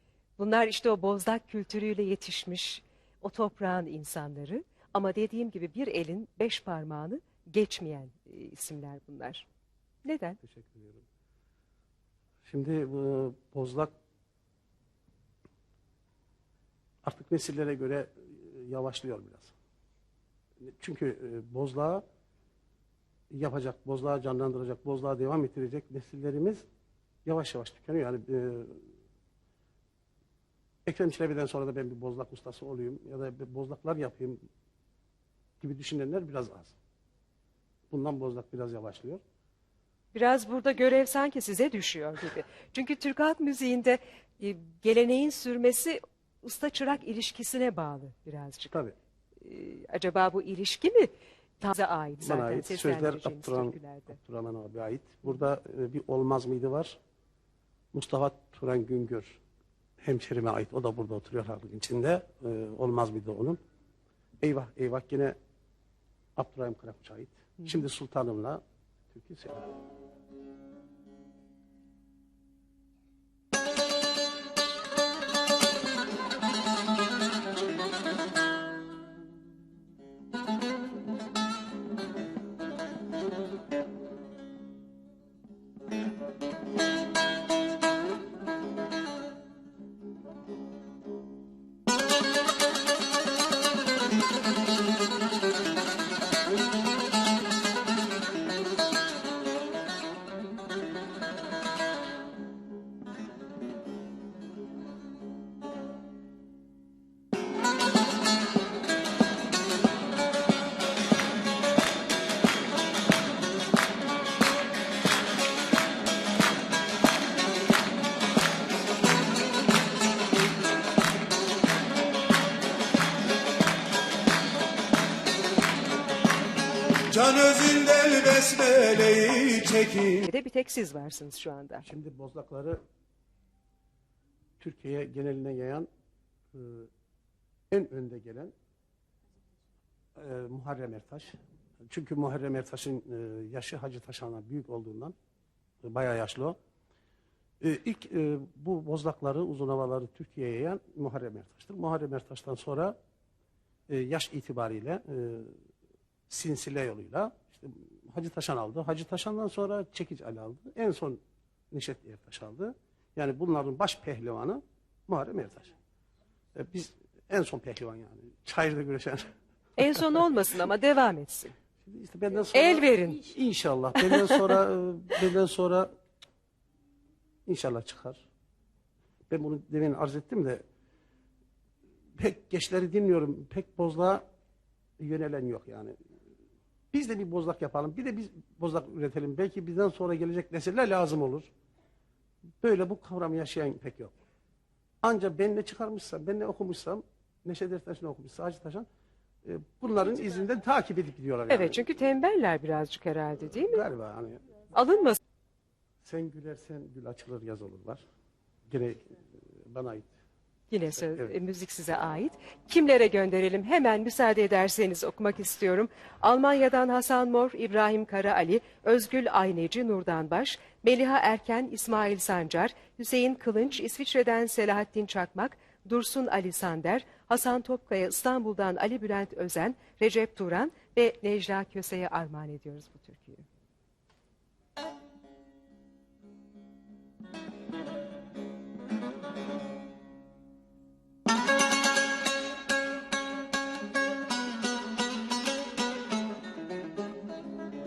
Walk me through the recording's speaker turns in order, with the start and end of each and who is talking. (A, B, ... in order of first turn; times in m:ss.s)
0:00.4-0:09.5 A
0:10.0-0:10.4 A
0:10.4-0:11.0 B
0:12.5-0:13.9 B
0:17.0-0:19.5 B
0:20.6-0:22.0 B
0:23.3-0:26.7 B
0:27.2-0:28.8 B
0:30.8-0:34.4 B
0:35.6-0:36.8 B
0:37.9-0:39.2 B
0:40.1-0:48.7 A
0:49.4-0:54.2 A
0:52.2-0:57.0 B
0:57.9-0:59.4 B
1:00.0-1:03.6 B
1:04.4-1:05.4 B
1:06.4-1:09.7 B
2:07.1-2:10.3 C
2:10.3-2:11.8 A
2:11.8-2:12.8 B
2:14.6-2:15.9 B
2:16.5-2:16.9 B
2:17.7-2:18.5 B
2:20.2-2:21.4 B
2:21.9-2:25.2 B
2:25.8-2:26.6 B
2:27.6-2:33.0 B
2:33.9-2:35.6 B
2:36.3-2:41.2 B
2:41.7-2:45.7 B
2:46.6-2:49.3 B
2:49.8-2:51.5 A
2:51.8-2:55.9 B
2:52.5-2:53.2 A
2:54.0-2:54.4 A
2:57.5-2:58.2 B
2:59.3-3:00.6 B
3:02.2-3:04.2 B
3:05.0-3:06.0 B
3:06.9-3:11.5 B
3:12.6-3:14.1 B
3:15.0-3:18.9 B
3:19.4-3:21.9 B
3:21.5-3:23.8 A
3:23.4-3:24.5 B
3:24.8-3:25.2 A
3:26.0-3:28.0 B
3:28.7-3:30.1 B
3:30.7-3:53.4 A
3:31.1-3:31.3 B